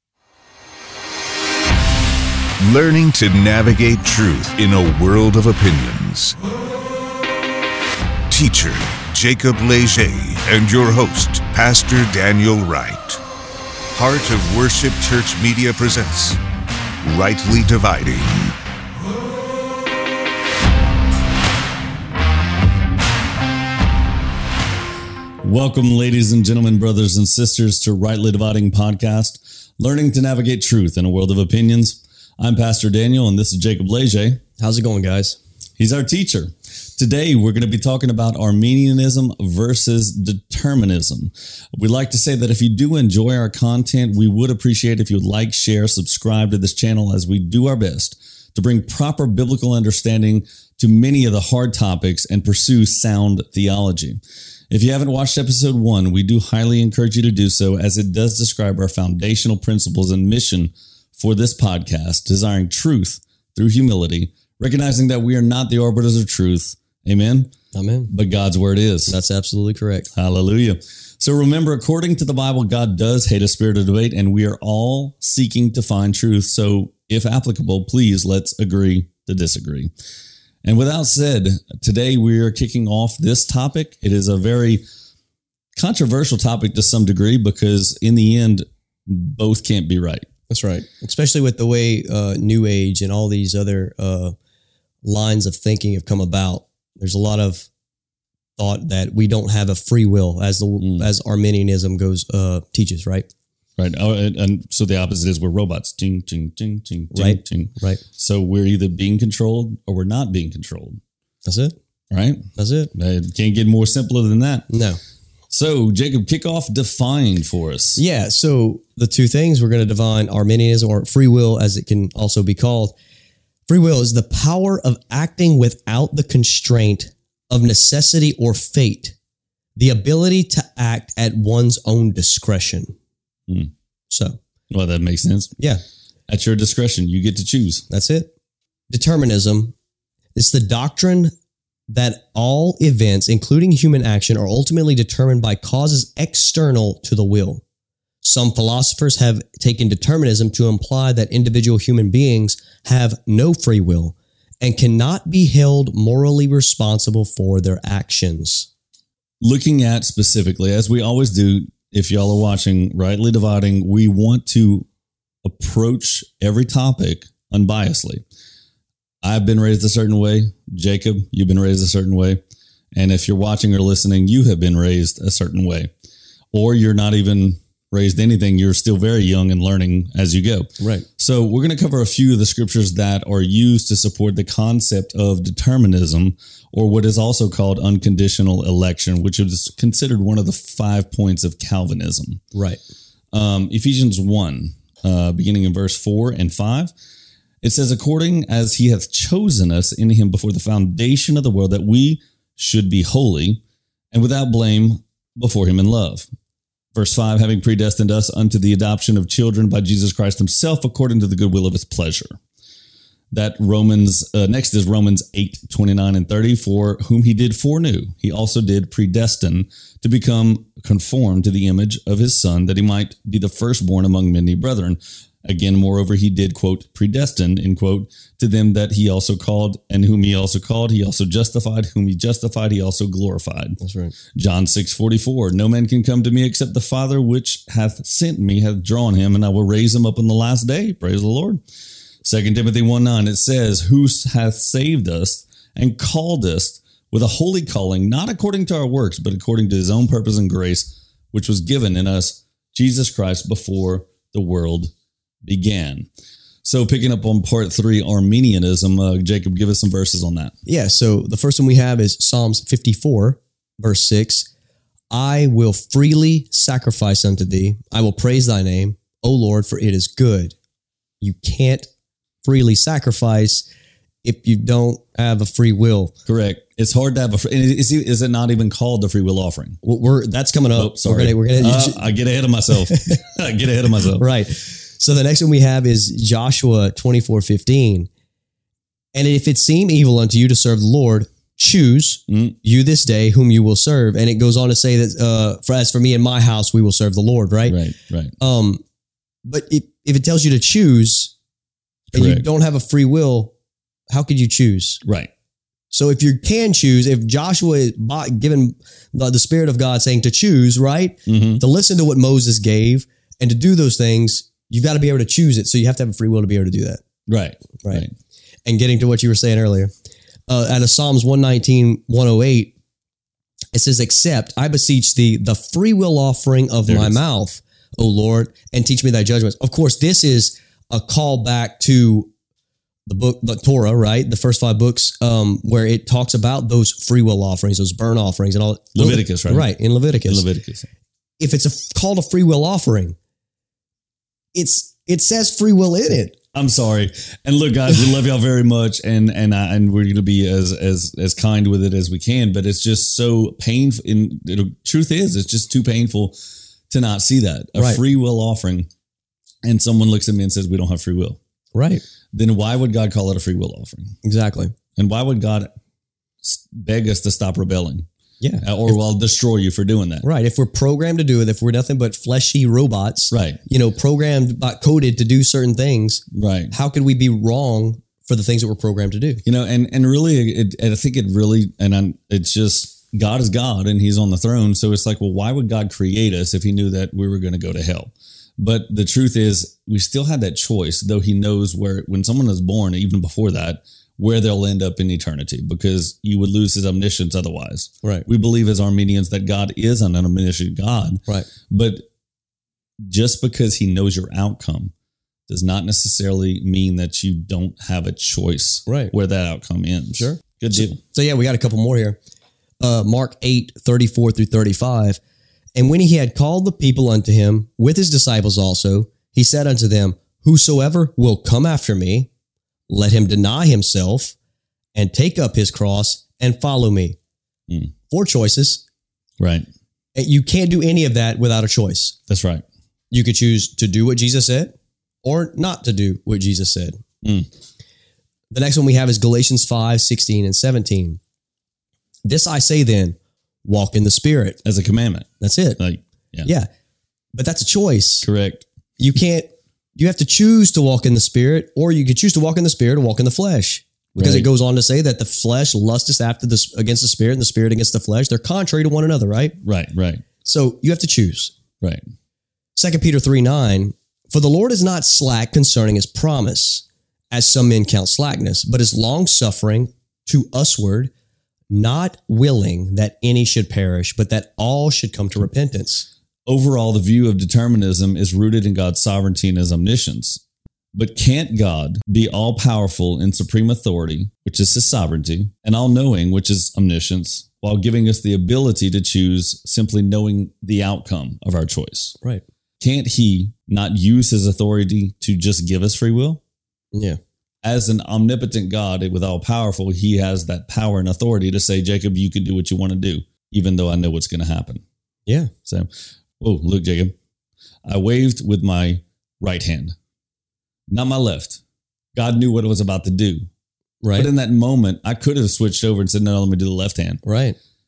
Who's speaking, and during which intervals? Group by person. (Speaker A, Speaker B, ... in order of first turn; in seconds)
Speaker A: 2.6-6.4, 8.3-13.2, 13.9-16.4, 17.0-18.5
Speaker B: 25.4-34.4, 35.8-54.2, 54.7-67.5, 68.1-69.2, 70.1-79.9, 80.7-84.8, 85.8-90.2, 100.8-101.1, 103.8-111.0, 112.1-114.7, 115.5-118.0, 134.7-135.6, 136.3-137.8, 159.4-164.9, 165.4-168.2, 169.2-172.4, 172.9-175.9, 176.5-192.4, 193.3-196.9, 197.6-203.6, 204.1-206.3, 206.9-212.4, 213.3-233.8, 234.3-241.6, 242.2-254.9, 255.4-256.1, 256.6-260.5, 276.3-279.8, 280.8-284.2, 292.3-292.6, 297.7-298.3, 302.1-302.4, 305.0-305.3, 311.3-311.6, 317.3-318.1, 326.9-327.2, 339.0-339.7, 340.2-340.9, 346.5-356.4, 356.9-358.9, 359.6-361.4, 362.3-364.2, 365.0-365.7, 366.4-368.1, 368.6-370.2, 373.3-373.6, 376.3-376.7, 379.4-402.1, 403.1-404.9, 405.5-411.0, 429.4-429.7, 432.3-432.6, 437.2-437.5, 444.6-446.5, 448.2-448.6, 454.1-454.5, 459.6-460.2, 476.5-480.4, 480.9-492.1, 492.8-496.4, 497.6-504.8, 506.4-507.1, 507.9-509.9, 510.9-511.6, 512.1-513.5, 514.1-517.2
Speaker C: 34.6-35.4, 67.7-68.1, 69.1-70.1, 90.5-94.3, 95.0-97.7, 98.6-103.3, 107.1-108.0, 111.5-111.8, 112.6-112.9, 114.7-115.0, 118.0-123.0, 123.7-129.2, 129.8-132.9, 134.1-134.4, 137.9-138.3, 138.9-139.7, 140.3-141.3, 141.9-147.6, 148.2-158.7, 180.8-181.1, 192.5-192.8, 233.8-234.2, 260.7-264.5, 265.1-270.5, 271.2-271.9, 272.4-273.7, 274.2-276.1, 279.8-282.1, 282.7-283.2, 284.1-288.1, 289.1-298.8, 299.4-301.3, 302.1-303.5, 304.1-305.0, 305.9-317.0, 318.6-319.9, 320.5-322.7, 323.7-332.3, 333.1-340.5, 341.4-343.1, 344.6-346.4, 357.8-358.0, 361.7-362.0, 364.2-364.7, 368.4-369.0, 370.2-379.4, 408.9-409.1, 410.2-412.2, 412.8-415.2, 415.8-422.3, 422.9-424.4, 424.9-427.2, 428.1-428.8, 430.1-432.2, 433.1-437.0, 438.5-441.2, 442.2-444.6, 445.4-445.8, 446.4-446.7, 447.4-448.3, 449.0-459.6, 460.4-461.5, 462.8-471.1, 471.7-476.1, 496.9-497.2, 505.3-505.5, 514.0-514.3, 517.2-517.6